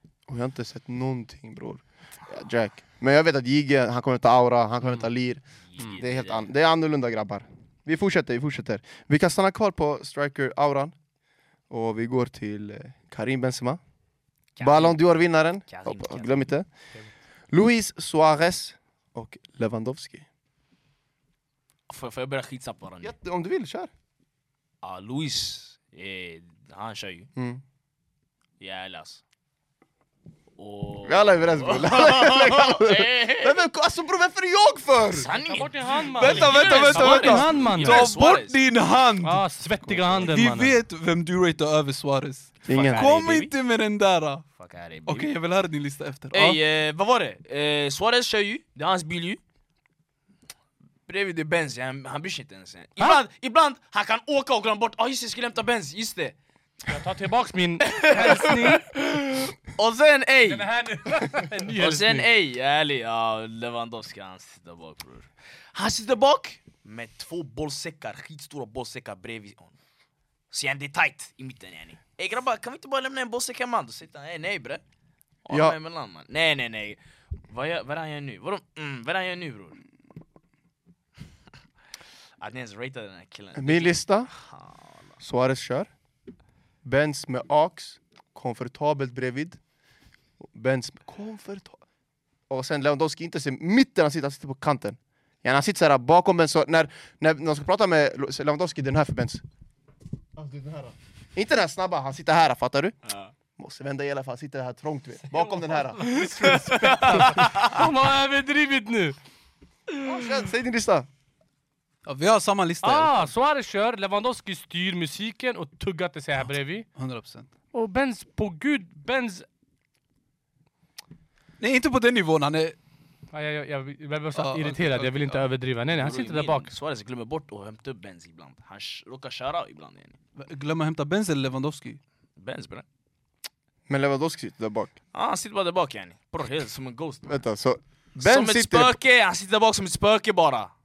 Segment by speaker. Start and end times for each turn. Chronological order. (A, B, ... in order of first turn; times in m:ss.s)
0:00.3-0:10.9 A
0:05.7-0:06.5 B
0:11.7-0:13.8 A
0:14.6-0:15.0 B
0:14.6-0:16.6 A
0:15.6-0:16.5 B
0:17.5-0:20.2 A
0:21.9-0:23.1 B
0:23.0-0:23.9 A
0:24.8-0:27.3 B
0:27.4-0:27.6 A
0:28.6-0:29.2 B
0:30.6-0:33.6 B
0:31.0-0:35.3 A
0:35.1-0:38.6 B
0:35.4-0:38.1 C
0:36.1-0:39.4 D
0:39.2-0:40.8 C
0:40.2-0:44.4 D
0:42.6-0:43.5 B
0:42.7-0:43.1 A
0:44.6-0:45.3 B
0:45.0-0:46.6 D
0:46.3-0:49.4 B
0:51.1-0:56.4 B
0:56.9-0:58.8 C
0:57.8-1:00.7 B
1:00.5-1:02.3 C
1:01.8-1:09.8 B
1:10.5-1:14.8 B
1:15.4-1:19.8 B
1:15.5-1:15.8 A
1:22.4-1:25.0 B
1:23.5-1:24.3 A
1:25.2-1:25.9 A
1:26.8-1:29.6 A
1:30.4-1:31.8 A
1:32.5-1:39.4 A
1:40.4-1:42.9 A
1:43.0-1:43.3 B
1:43.6-1:47.2 A
1:45.3-1:49.2 C
1:46.4-1:47.8 B
1:50.0-1:51.1 A
1:52.0-1:53.3 D
1:52.8-1:56.8 C
1:56.9-1:57.5 D
1:57.7-1:59.4 C
2:01.6-2:02.8 D
2:03.3-2:06.7 C
2:04.3-2:05.4 D
2:05.9-2:10.1 B
2:10.4-2:12.0 D
2:12.4-2:12.8 B
2:13.9-2:14.9 A
2:15.1-2:17.4 B
2:17.2-2:19.0 A
2:18.2-2:20.7 B